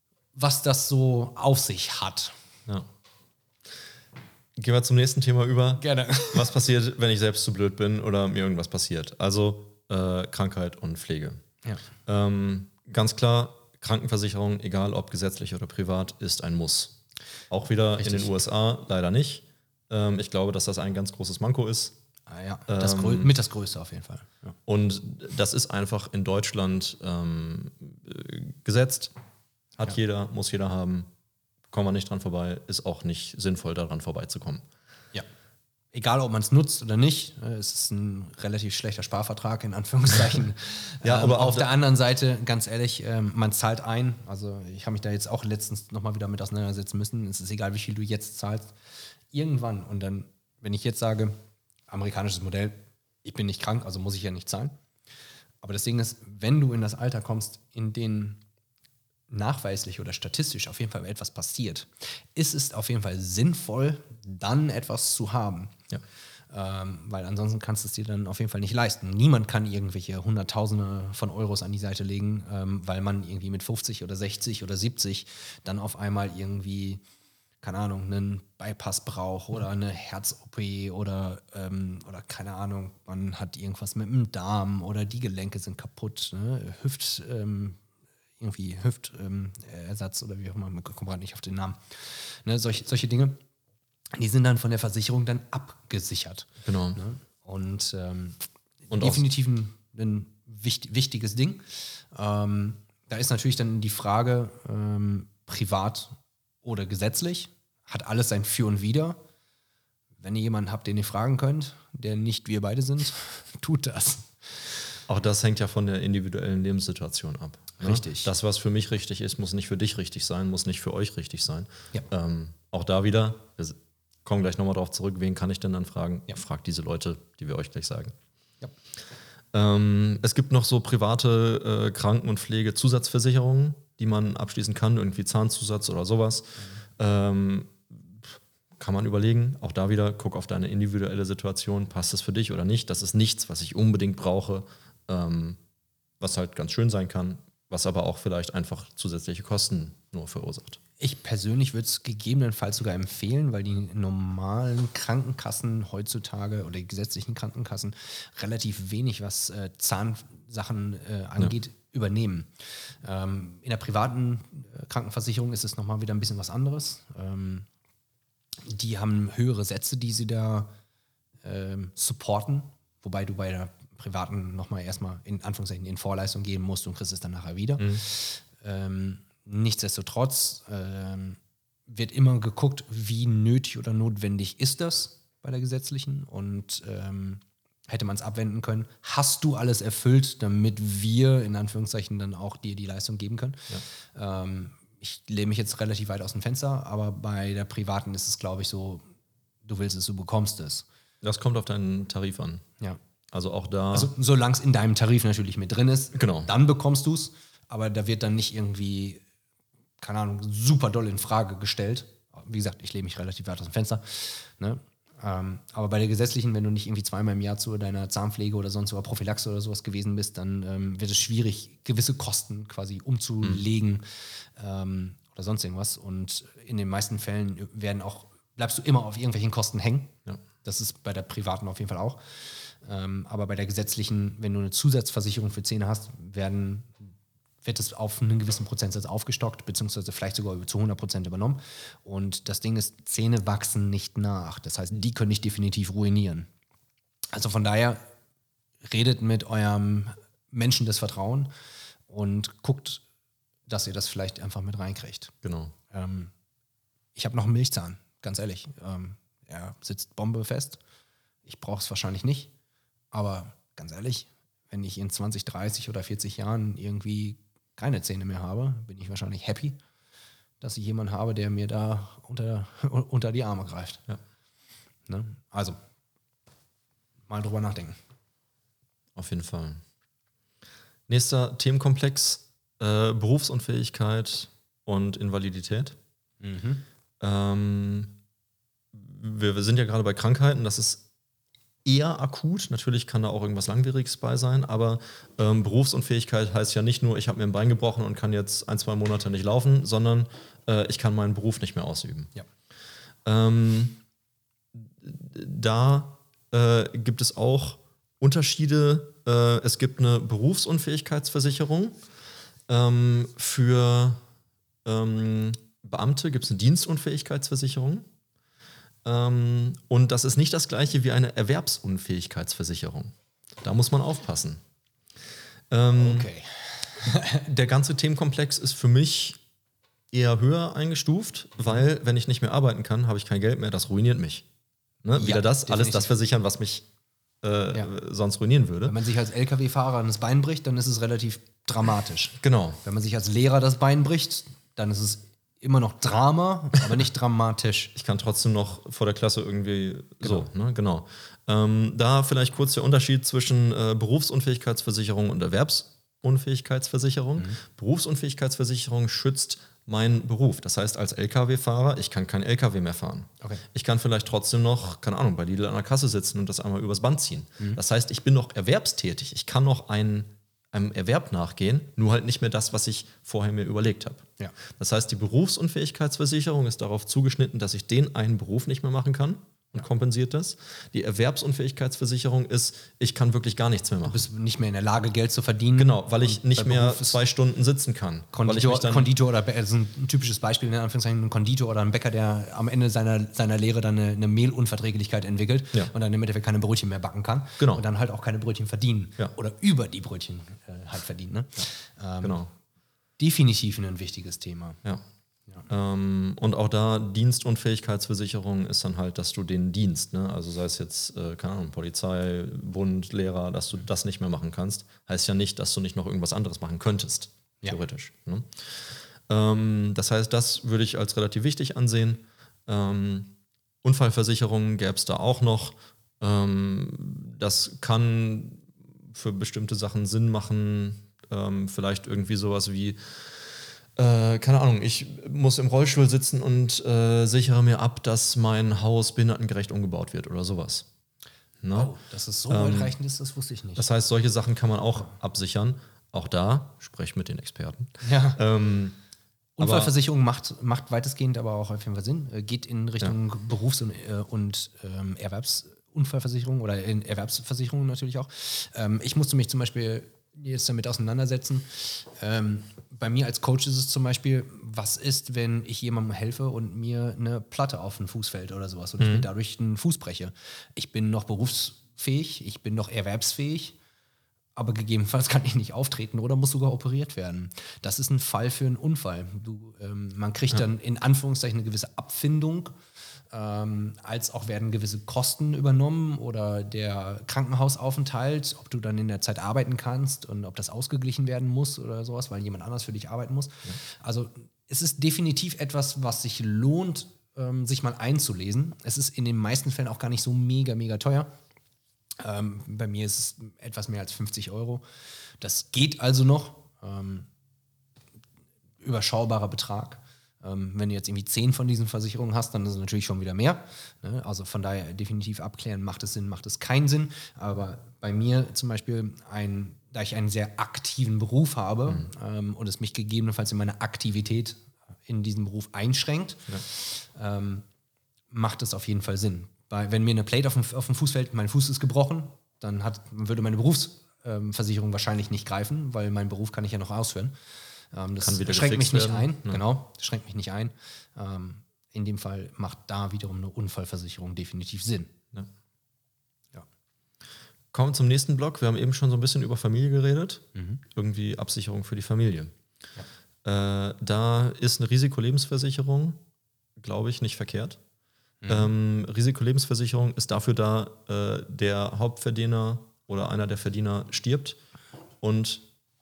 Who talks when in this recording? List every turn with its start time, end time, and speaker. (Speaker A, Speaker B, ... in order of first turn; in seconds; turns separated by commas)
Speaker A: 0.3-2.4, Speaker B: 4.6-11.4, Speaker A: 5.8-6.5, Speaker B: 12.1-17.0, Speaker B: 17.5-21.9, Speaker A: 18.0-18.3, Speaker A: 22.3-24.6, Speaker B: 22.7-23.3, Speaker B: 24.7-29.1, Speaker B: 29.8-31.1, Speaker B: 31.7-34.6, Speaker A: 35.9-48.7, Speaker B: 41.0-41.7, Speaker A: 49.3-51.4, Speaker A: 51.9-54.8, Speaker A: 55.6-58.4, Speaker A: 59.3-65.8, Speaker A: 66.5-77.0, Speaker A: 77.6-87.8, Speaker A: 88.4-93.4, Speaker A: 94.2-109.2, Speaker B: 96.6-97.0, Speaker B: 98.9-99.2, Speaker A: 110.2-114.6, Speaker B: 115.1-128.2, Speaker A: 117.8-118.3, Speaker B: 129.5-145.6, Speaker B: 146.2-150.8, Speaker A: 151.0-162.5, Speaker A: 163.0-167.7, Speaker A: 168.7-170.7, Speaker A: 171.4-193.6, Speaker A: 194.2-199.0, Speaker A: 199.7-200.9, Speaker B: 201.2-202.7, Speaker B: 203.3-204.1, Speaker A: 203.9-209.2, Speaker B: 206.2-206.5, Speaker A: 210.0-237.1, Speaker A: 237.6-246.5, Speaker A: 247.3-248.0, Speaker A: 248.8-251.5, Speaker A: 252.1-253.0, Speaker A: 253.7-255.3, Speaker B: 255.4-255.8, Speaker A: 255.9-256.3, Speaker A: 257.1-260.8, Speaker A: 261.4-262.5, Speaker A: 263.1-269.8, Speaker A: 270.6-274.0, Speaker A: 275.1-275.8, Speaker A: 277.3-278.0, Speaker B: 279.1-279.8, Speaker B: 281.1-286.0, Speaker A: 286.4-286.8, Speaker B: 287.2-288.1, Speaker B: 288.9-291.0, Speaker B: 291.9-302.3, Speaker B: 303.2-304.0, Speaker B: 304.8-312.0, Speaker B: 312.7-314.2, Speaker B: 314.9-318.1, Speaker B: 319.1-324.6, Speaker B: 325.7-326.3, Speaker A: 325.9-327.4, Speaker B: 327.3-329.4, Speaker B: 330.1-334.4, Speaker B: 335.0-336.9, Speaker A: 335.1-336.1, Speaker B: 337.4-338.9, Speaker A: 338.9-347.9, Speaker B: 342.4-342.8, Speaker B: 348.0-384.3, Speaker A: 384.0-387.2, Speaker B: 385.8-389.1, Speaker A: 388.3-402.4, Speaker B: 397.6-397.8, Speaker B: 402.2-402.5, Speaker A: 403.2-404.8, Speaker B: 405.7-440.9, Speaker B: 441.6-441.9, Speaker A: 441.7-443.9, Speaker B: 442.5-442.9, Speaker B: 443.8-449.0, Speaker A: 448.0-448.4, Speaker A: 449.6-473.8, Speaker B: 449.6-449.9, Speaker B: 469.0-469.3, Speaker A: 474.6-482.8, Speaker A: 483.3-501.3, Speaker A: 502.2-504.8, Speaker A: 505.4-507.3, Speaker A: 508.8-527.6, Speaker A: 528.3-537.3, Speaker A: 537.9-545.1, Speaker B: 538.2-539.6, Speaker B: 547.7-552.5, Speaker A: 550.5-550.8, Speaker B: 553.4-556.2, Speaker B: 556.8-557.8, Speaker A: 558.4-558.7, Speaker B: 558.5-564.6, Speaker B: 565.2-565.6